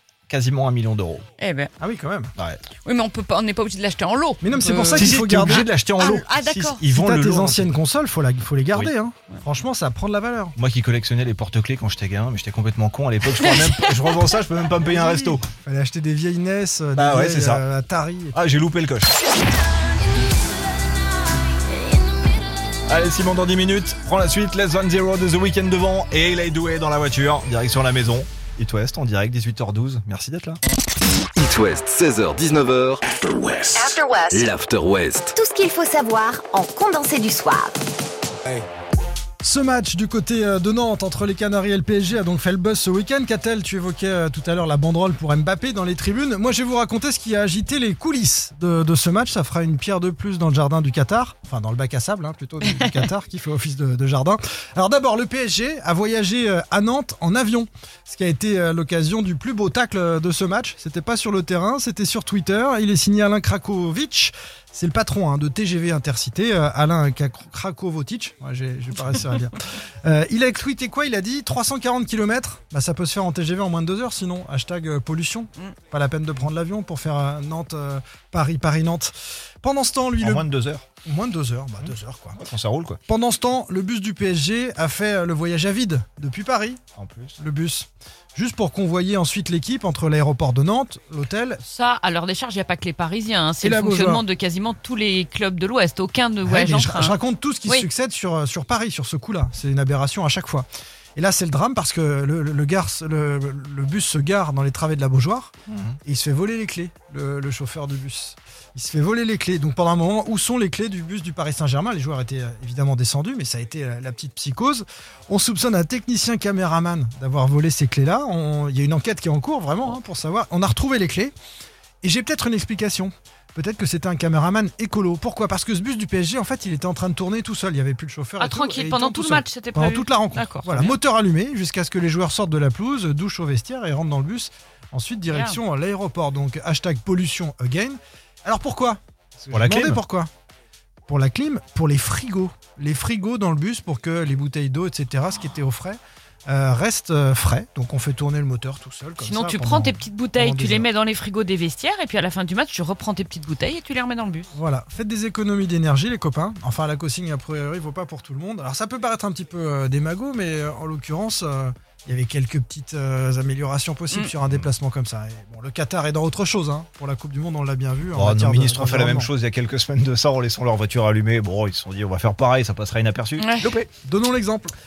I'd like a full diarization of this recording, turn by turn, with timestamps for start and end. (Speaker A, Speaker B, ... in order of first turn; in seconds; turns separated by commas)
Speaker A: 0.3-1.3, Speaker B: 1.4-1.7, Speaker C: 1.8-2.3, Speaker B: 2.8-6.8, Speaker C: 4.4-5.7, Speaker A: 5.0-7.7, Speaker C: 6.9-10.5, Speaker A: 10.6-15.4, Speaker B: 13.4-13.7, Speaker C: 15.6-18.4, Speaker A: 16.9-17.6, Speaker A: 18.3-19.1, Speaker A: 22.9-30.6, Speaker D: 31.4-35.3, Speaker E: 33.8-34.5, Speaker E: 35.3-37.8, Speaker C: 39.4-80.5, Speaker A: 80.2-80.8, Speaker C: 81.0-82.4, Speaker A: 81.8-83.0, Speaker C: 83.1-86.8, Speaker A: 87.0-87.4, Speaker C: 87.4-91.6, Speaker B: 91.6-97.9, Speaker C: 93.6-94.2, Speaker C: 96.5-105.5, Speaker A: 105.7-106.0, Speaker C: 106.0-121.3, Speaker C: 122.0-140.3, Speaker B: 128.4-130.9, Speaker B: 135.3-135.6, Speaker A: 139.5-140.0, Speaker C: 141.1-150.9, Speaker B: 149.2-154.5, Speaker C: 154.5-169.3, Speaker A: 168.1-173.9, Speaker B: 173.4-173.7, Speaker C: 174.0-174.7